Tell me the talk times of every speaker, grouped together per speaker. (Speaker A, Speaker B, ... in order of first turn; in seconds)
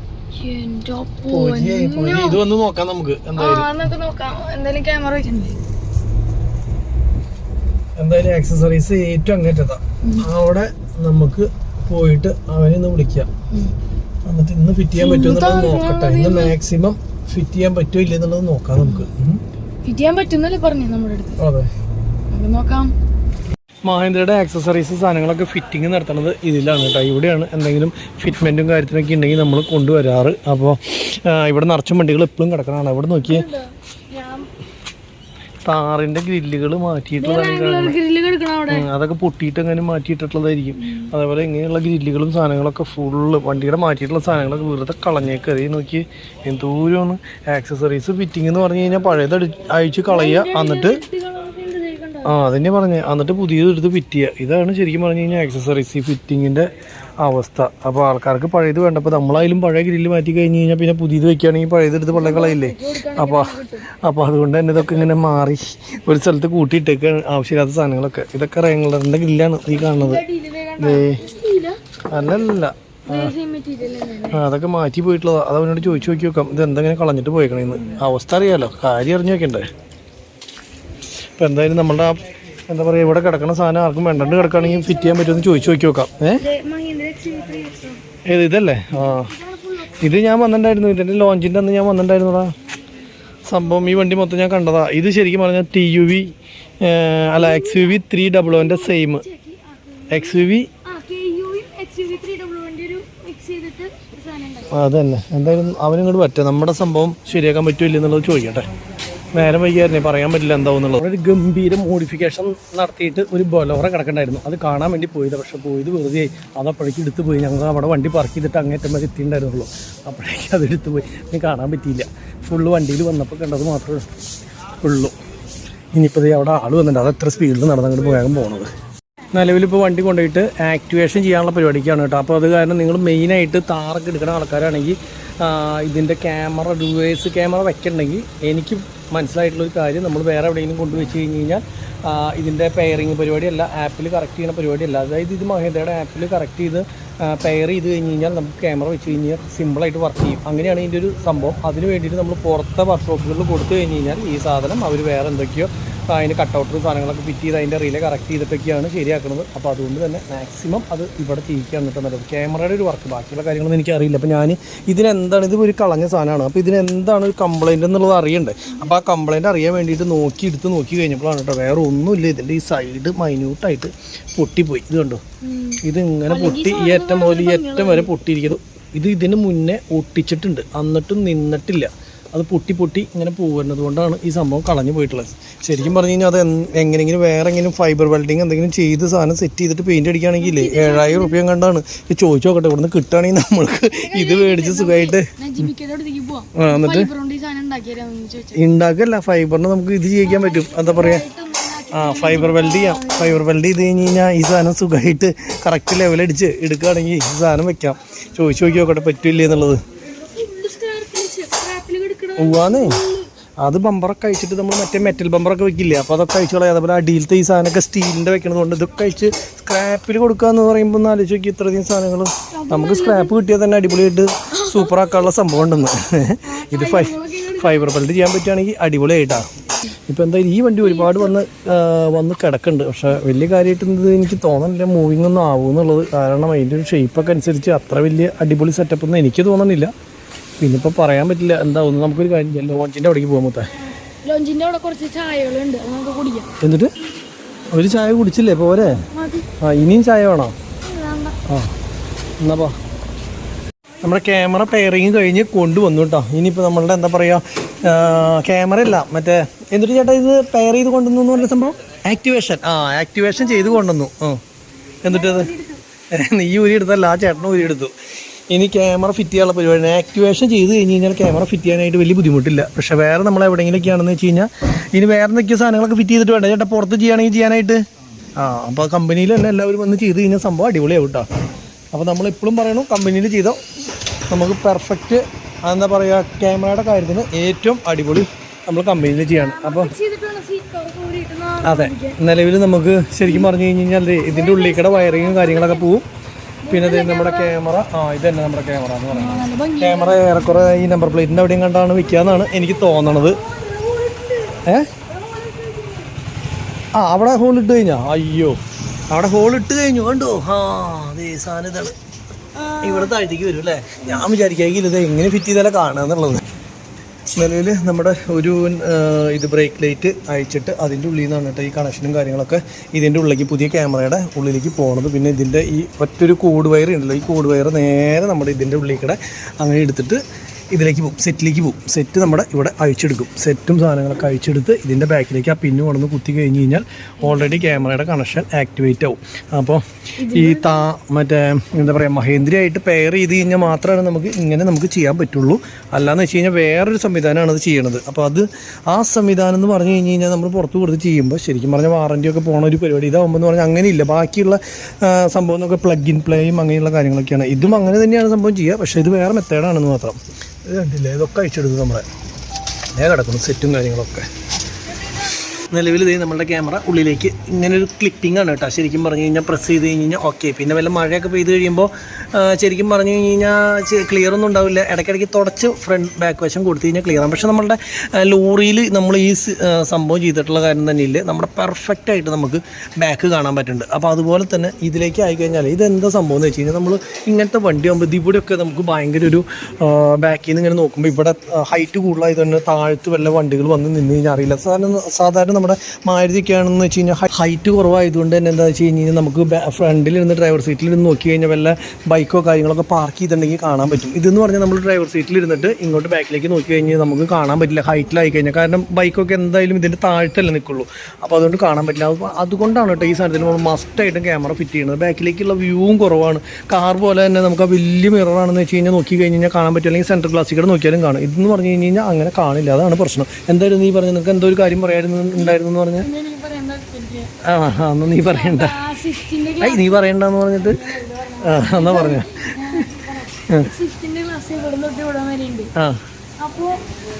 Speaker A: 0.4-2.4, 3.4-5.6, 15.0-16.5, 19.8-21.4, 22.3-22.9, 33.2-34.5, 37.2-38.9, 40.8-41.1, 50.1-52.3, 62.1-63.8, 69.7-71.8, 73.1-74.4, 77.7-78.0, 84.2-85.7, 86.4-88.0, 89.0-90.2, 97.4-104.7, 175.4-178.1, 190.4-191.4, 194.0-198.6, 200.2-203.4, 210.2-213.3, 222.5-223.4, 224.5-225.1, 226.4-228.0, 230.8-231.3, 244.2-246.5, 249.1-249.5, 250.8-251.3, 263.4-263.8, 265.1-265.8, 289.3-292.2, 293.2-293.5, 294.2-295.9, 296.6-297.6, 299.1-300.6, 302.3-306.1, 312.6-313.1, 340.2-340.8, 364.9-365.6, 425.4-427.3, 428.2-430.1, 430.6-435.7, 436.4-436.8
Speaker B: 1.3-3.7, 8.0-13.3, 14.2-19.4, 21.4-21.7, 23.8-33.4, 35.6-38.0, 38.7-51.0, 52.2-56.7, 57.2-70.2, 70.8-71.2, 72.1-73.3, 74.3-79.7, 81.4-86.4, 88.3-89.3, 90.0-92.5, 93.5-99.2, 100.1-100.7, 104.7-108.7, 109.3-124.0, 124.8-125.1, 125.9-128.7, 129.3-175.2, 175.8-195.7, 196.5-197.1, 198.5-201.2, 201.9-209.8, 212.4-213.0, 213.6-229.5, 230.1-239.9, 240.6-243.7, 246.6-246.9, 247.7-249.0, 249.6-250.5, 251.5-251.7, 252.4-252.8, 254.0-264.4, 265.0-265.5, 266.1-267.9, 268.5-277.8, 278.4-281.3, 281.9-283.6, 284.3-289.9, 291.6-296.0, 296.7-303.4, 304.6-304.9, 306.9-308.6, 309.1-311.9, 312.8-316.4, 317.4-362.1, 362.9-364.2, 365.7-426.1, 427.4-428.8, 429.6-430.9, 431.4-432.9, 435.8-436.0